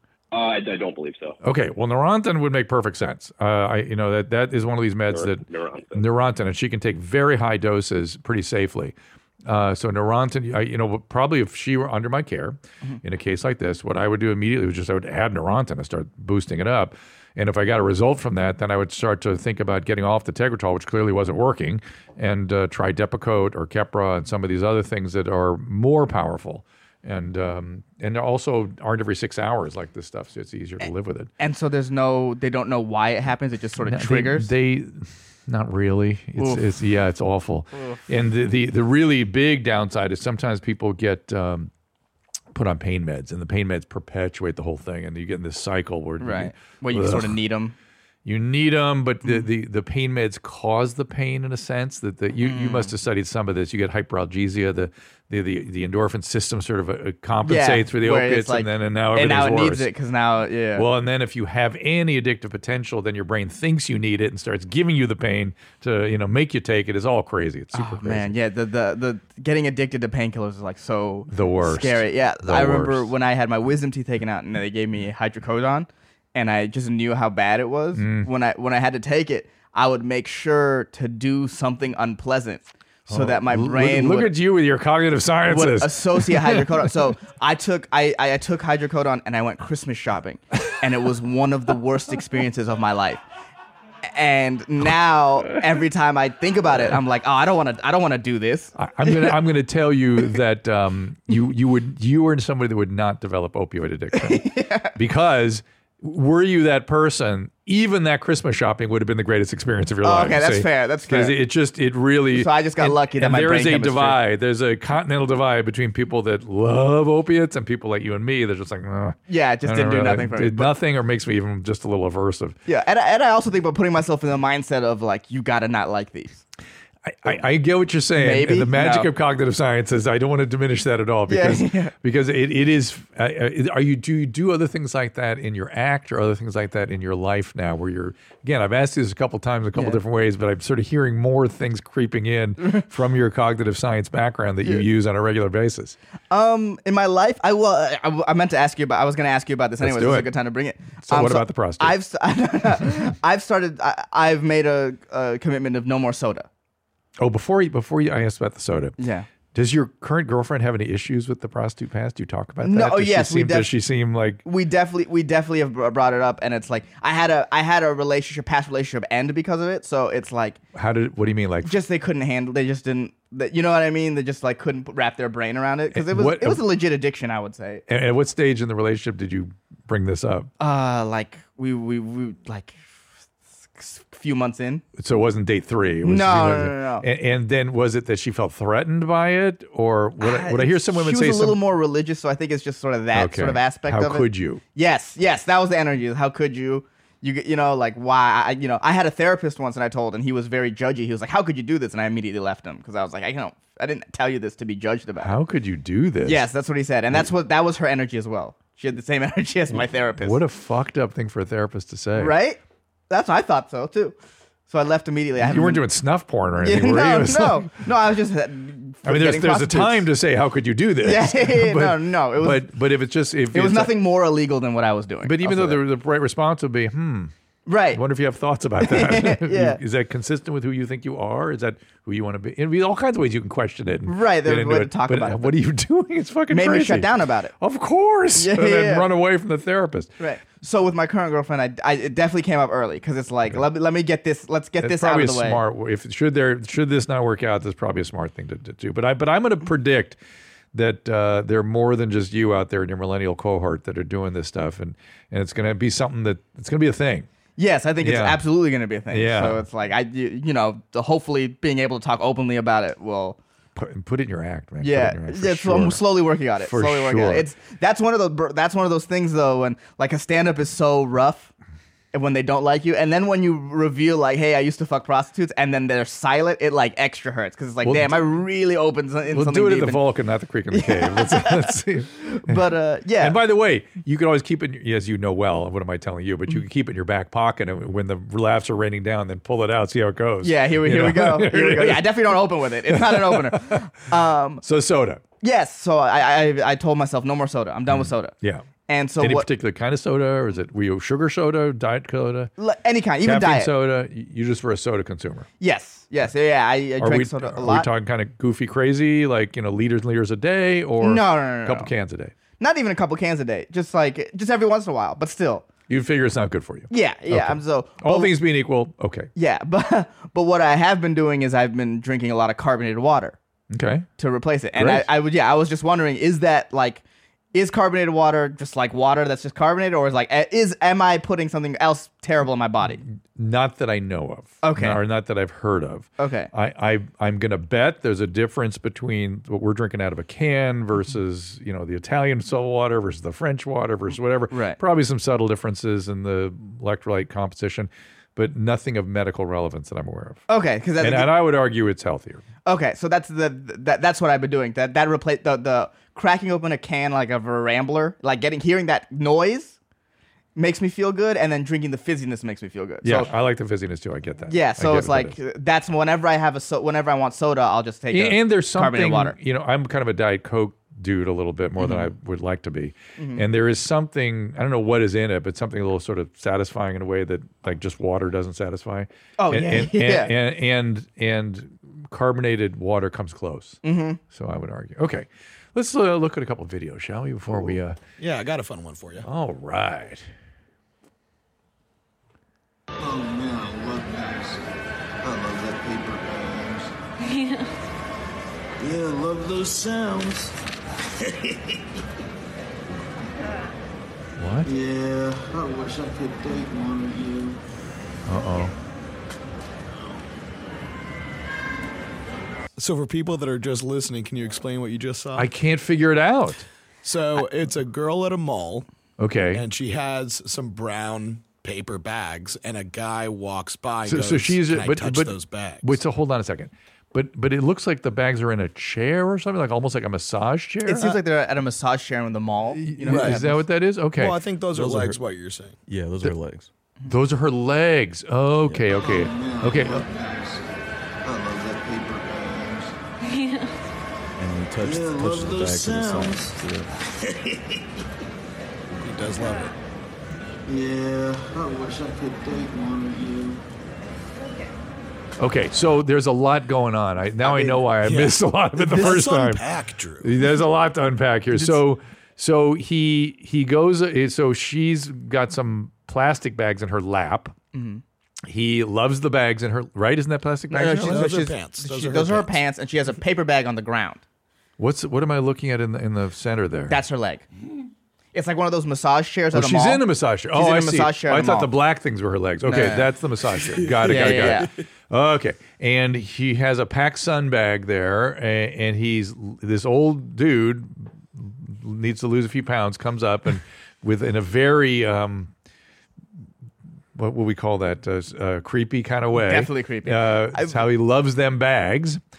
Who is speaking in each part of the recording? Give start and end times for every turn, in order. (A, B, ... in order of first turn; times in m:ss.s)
0:00.3-0:01.4 A
0:01.4-0:31.3 B
0:05.1-0:06.0 A
0:31.4-0:34.5 C
0:33.8-0:41.7 B
0:36.4-0:36.6 C
0:42.5-0:47.4 B
0:46.2-0:47.7 C
0:48.2-0:59.9 B
0:52.4-0:52.9 C
0:57.4-1:00.8 C
1:00.7-1:08.3 B
1:07.7-1:24.3 C
1:11.3-1:13.1 B
1:18.0-1:18.3 B
1:23.1-1:26.8 B
1:25.5-1:33.2 C
1:34.0-1:39.4 C
1:38.8-2:02.6 B
1:44.1-1:45.0 C
1:50.0-1:51.4 C
1:52.3-1:54.2 C
1:59.3-2:00.7 C
2:02.7-2:06.4 C
2:07.0-2:26.0 B
2:08.2-2:09.1 C
2:11.3-2:11.9 C
2:26.3-2:36.5 C
2:29.8-2:30.3 B
2:31.0-2:32.0 B
2:37.2-2:39.0 B
2:39.0-2:39.3 C
2:39.5-2:44.4 B
2:42.6-2:43.7 C
2:44.4-2:50.6 C
2:50.7-2:51.7 B
2:51.6-2:57.8 C
2:55.9-2:56.6 B
2:57.9-3:00.5 B
3:00.6-3:02.8 C
3:03.7-3:04.8 C
3:05.0-3:11.6 B
3:06.0-3:07.0 C
3:10.2-3:25.4 C
3:13.1-3:14.6 B
3:25.2-3:26.4 B
3:26.2-3:30.4 C
3:30.2-3:32.3 B
3:32.2-3:32.6 C
3:33.1-3:34.2 C
3:34.7-3:35.8 C
3:35.4-3:37.8 B
3:36.6-3:40.1 C
3:39.0-3:43.9 B
3:41.0-3:42.7 C
3:43.5-3:45.8 C
3:45.2-3:47.3 B
3:47.6-3:48.0 C
3:47.9-4:00.1 B
3:48.8-3:49.8 C
3:54.1-3:55.5 C
3:56.5-3:57.5 C
3:58.3-3:59.1 C
4:00.2-4:05.6 C
4:04.8-4:10.2 B
4:10.7-4:17.3 B
4:17.6-4:23.4 C
4:18.0-4:18.4 B
4:19.1-4:19.6 B
4:23.8-4:26.0 B
4:24.8-4:31.5 C
4:26.6-4:27.5 B
4:32.1-4:40.0 C
4:37.8-4:38.2 B
4:39.3-4:42.6 B
4:40.7-4:43.4 C
4:43.2-4:53.9 B
4:50.4-4:54.6 C
4:54.6-4:55.2 B
4:55.4-4:58.3 C
4:57.9-4:58.7 B
4:58.9-4:59.5 C
4:59.2-5:02.5 B
5:02.6-5:03.7 C
5:03.2-5:05.5 B
5:05.6-5:07.9 C
5:07.0-5:12.3 B
5:11.0-5:11.9 C
5:12.6-5:15.7 C
5:15.9-5:19.3 B
5:16.9-5:18.3 C
5:19.3-5:23.4 C
5:23.7-5:24.1 B
5:24.2-5:33.0 C
5:24.7-5:25.1 B
5:33.0-5:50.4 B
5:34.6-5:35.0 C
5:36.2-5:36.5 C
5:44.5-5:44.8 C
5:50.5-5:51.3 C
5:51.0-5:52.4 B
5:52.6-5:59.8 C
6:00.6-6:03.3 C
6:03.0-6:05.4 B
6:04.5-6:09.4 C
6:08.1-6:28.0 B
6:11.8-6:12.1 C
6:13.2-6:13.4 C
6:19.4-6:20.3 C
6:23.8-6:24.2 C
6:28.2-6:29.2 D
6:29.2-6:30.3 B
6:33.0-6:34.6 E
6:35.2-6:36.9 E
6:38.8-6:40.5 E
6:44.4-6:44.7 B
6:44.6-6:47.6 E
6:48.2-6:48.7 B
6:52.8-6:55.5 D
6:55.4-6:56.7 B
6:57.0-6:58.9 D
6:59.2-6:59.6 B
6:59.5-7:06.0 D
7:04.0-7:11.2 B
7:10.8-7:13.6 C
7:12.7-7:14.4 B
7:13.1-7:13.4 D
7:14.2-7:15.8 D
7:14.7-7:15.2 F
7:15.9-7:16.7 F
7:17.1-7:20.0 B
7:18.9-7:20.6 E
7:21.2-7:23.0 E
7:24.4-7:26.9 F
7:24.8-7:26.6 E
7:29.0-7:29.7 D
7:30.6-7:33.6 E
7:35.4-7:39.6 B
7:37.5-7:40.4 D
7:40.2-7:47.5 B
7:41.5-7:41.8 C
7:47.7-7:48.0 C
7:48.5-7:51.3 B
7:50.7-7:54.2 C
7:50.9-7:52.6 D
7:54.8-7:57.0 B
7:56.9-7:57.4 C
7:58.3-8:01.7 C
7:59.5-8:15.5 B
8:02.6-8:03.1 C
8:04.0-8:04.7 C
8:17.1-8:22.2 B
8:19.3-8:20.9 C